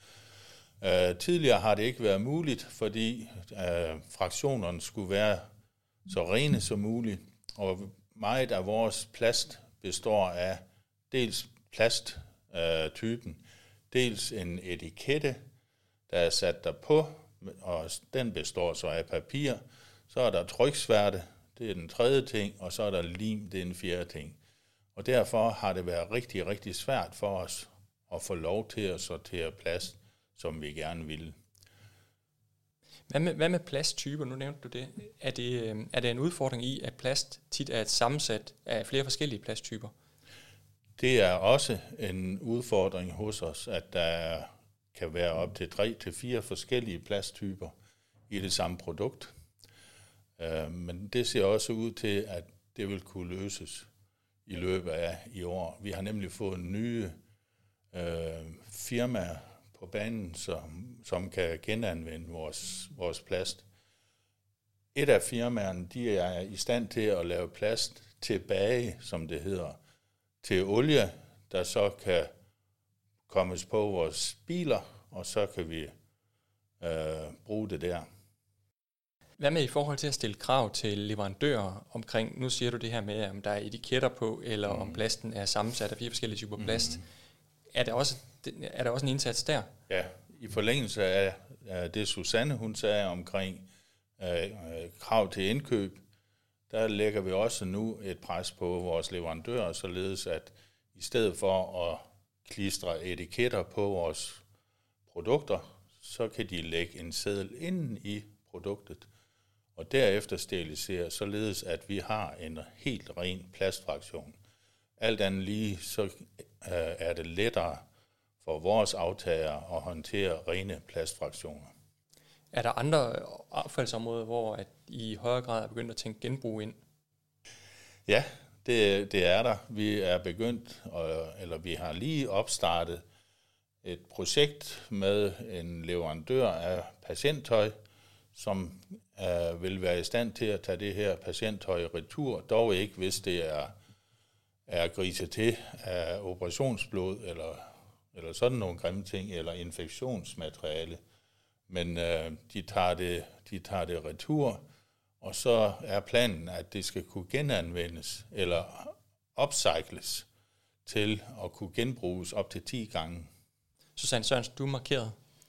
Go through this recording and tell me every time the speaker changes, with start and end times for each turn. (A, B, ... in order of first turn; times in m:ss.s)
0:00.8-0:05.4 A
0:06.1-0:15.4 A
0:16.1-0:24.4 A
0:25.0-0:31.3 A
0:33.1-0:39.9 B
0:41.0-0:47.7 A
0:48.3-0:49.3 A
0:50.4-0:53.9 A
0:54.4-0:57.2 A
0:57.9-1:03.6 A
1:04.9-1:09.8 A
1:10.4-1:12.3 A
1:13.3-1:15.9 A
1:16.8-1:18.1 A
1:19.4-1:27.0 B
1:26.6-1:27.0 A
1:27.7-1:29.7 B
1:29.9-1:33.7 A
1:34.2-1:36.0 A
1:36.7-1:44.4 A
1:45.1-1:49.1 A
1:49.8-1:54.4 A
1:55.0-1:57.8 A
1:58.4-2:01.7 A
2:02.5-2:06.8 B
2:08.1-2:13.0 A
2:13.8-2:17.7 A
2:18.3-2:23.7 A
2:24.7-2:31.0 A
2:31.7-2:34.6 A
2:35.2-2:40.2 A
2:40.8-2:43.3 A
2:44.0-2:45.1 B